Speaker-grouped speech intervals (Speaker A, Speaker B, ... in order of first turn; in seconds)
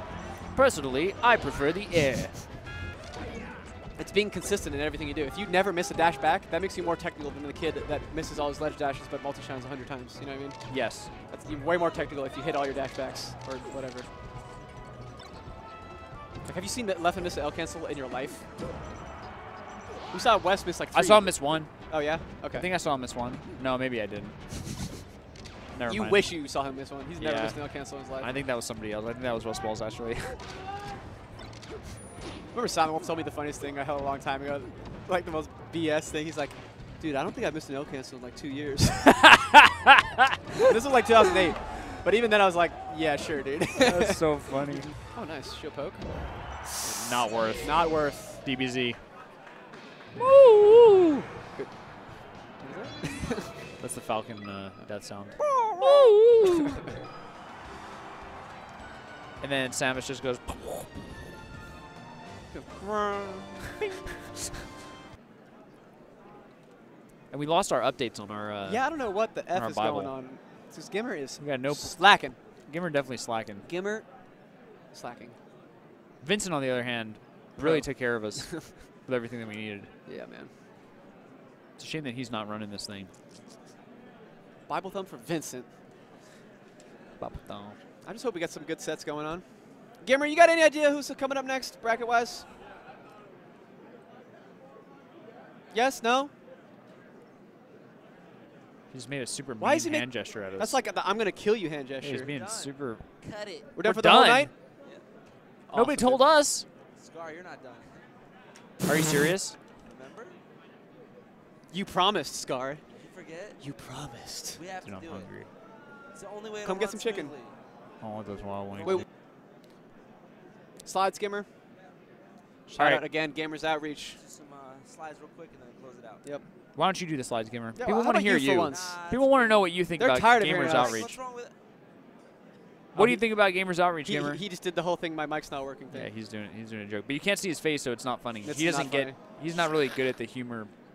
Speaker A: 0.5-2.4, 10.7-11.1, 20.9-21.7, 22.5-24.5, 25.7-26.2, 27.2-27.6, 28.2-30.4, 39.1-40.7, 43.8-44.9, 46.8-47.8, 48.4-49.0, 50.2-51.2, 53.8-56.8, 59.4-60.9, 67.3-68.8, 69.5-70.1, 71.4-72.1, 72.7-73.7, 76.2-79.9, 81.8-83.1, 87.2-87.8, 98.9-100.8, 102.0-104.5, 105.7-106.7, 108.8-109.5, 114.8-115.5, 118.0-119.0, 122.7-123.0, 126.8-131.2, 132.9-134.4, 135.9-140.7
Speaker B: 4.0-14.1, 16.4-18.4, 20.1-22.7, 25.9-28.3, 32.5-39.2, 40.6-46.1, 47.6-48.4, 52.6-53.5, 55.4-56.1, 62.5-63.8, 68.6-72.4, 73.6-74.1, 74.9-75.3, 77.6-78.7, 80.0-80.5, 84.7-85.7, 88.0-89.4, 90.0-92.5, 95.7-96.3, 99.6-102.3, 103.7-104.5, 105.7-106.2, 111.7-112.8, 113.6-114.6, 116.6-117.3, 120.8-121.5, 122.8-124.2, 127.8-129.0, 130.0-131.1, 132.9-133.2, 134.0-136.1, 138.4-139.2
Speaker C: 102.2-103.6, 107.0-108.0, 109.8-110.3, 113.0-113.6, 114.5-115.3, 116.1-117.5, 118.7-119.1, 124.2-126.2, 128.6-129.7, 130.4-131.5